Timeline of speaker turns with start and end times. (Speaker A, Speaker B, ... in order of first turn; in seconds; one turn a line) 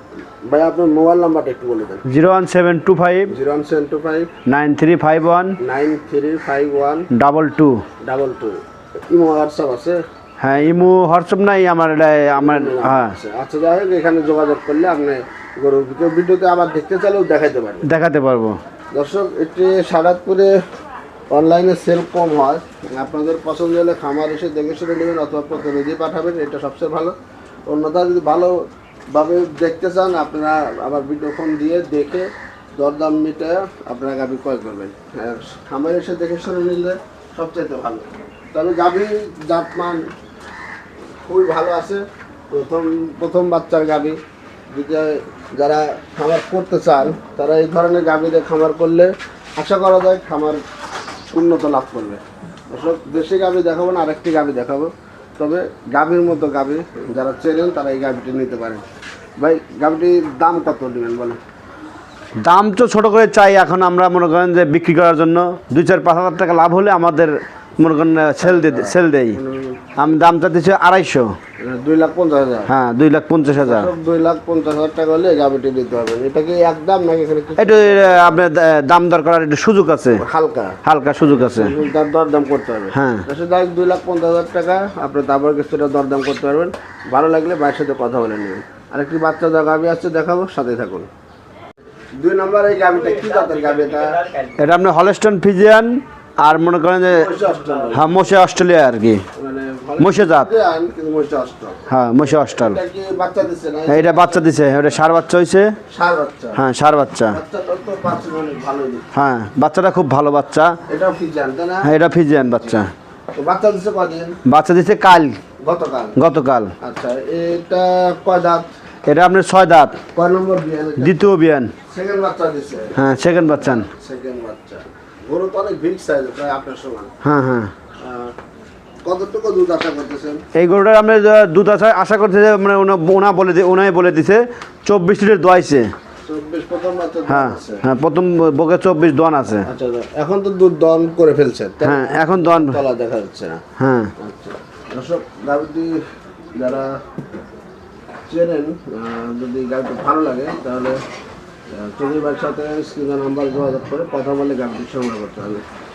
Speaker A: 0.4-2.0
Speaker B: 2.1-3.3
Speaker A: 3.3-4.3
Speaker B: 4.5-5.6
Speaker A: 5.6-7.1
Speaker B: 7.1-7.8
Speaker A: 8.0-10.0
Speaker B: 10.4-13.2
Speaker A: 12.3-17.9
Speaker B: 17.8-18.6
Speaker A: 18.9-20.6
Speaker A: 21.3-27.1
Speaker A: 27.7-40.0
Speaker A: 41.2-44.2
Speaker A: 44.7-50.6
Speaker A: 51.3-58.8
Speaker A: 59.4-61.4
Speaker B: 62.4-69.4
Speaker A: 68.4-69.9
Speaker B: 70.0-71.3
Speaker A: 71.6-72.7
Speaker B: 72.7-73.9
Speaker A: 73.6-78.4
Speaker B: 77.6-80.2
Speaker A: 80.2-91.1
Speaker B: 80.8-81.7
Speaker B: 82.9-83.2
Speaker A: 92.2-94.2
Speaker B: 94.6-97.3
Speaker A: 97.1-98.3
Speaker B: 97.9-99.2
Speaker A: 99.3-104.5
Speaker B: 100.0-100.5
Speaker B: 101.9-102.8
Speaker B: 103.9-105.7
Speaker A: 105.9-106.6
Speaker B: 106.5-107.4
Speaker A: 107.3-109.1
Speaker B: 109.1-110.8
Speaker A: 110.9-112.0
Speaker B: 111.8-112.9
Speaker A: 113.3-114.4
Speaker B: 114.5-115.4
Speaker A: 115.6-116.2
Speaker B: 116.2-116.7
Speaker A: 116.8-118.7
Speaker B: 119.1-120.0
Speaker A: 120.1-121.2
Speaker B: 121.0-121.7
Speaker A: 121.9-127.1
Speaker B: 123.0-123.9
Speaker B: 127.2-127.7
Speaker A: 128.0-128.3
Speaker A: 129.0-130.4
Speaker B: 130.5-135.9
Speaker A: 136.2-137.8
Speaker B: 137.3-139.7
Speaker A: 139.6-143.6
Speaker B: 141.8-142.8
Speaker B: 143.8-144.1
Speaker A: 144.2-146.0
Speaker A: 146.6-147.0
Speaker A: 148.3-151.0
Speaker A: 151.7-155.6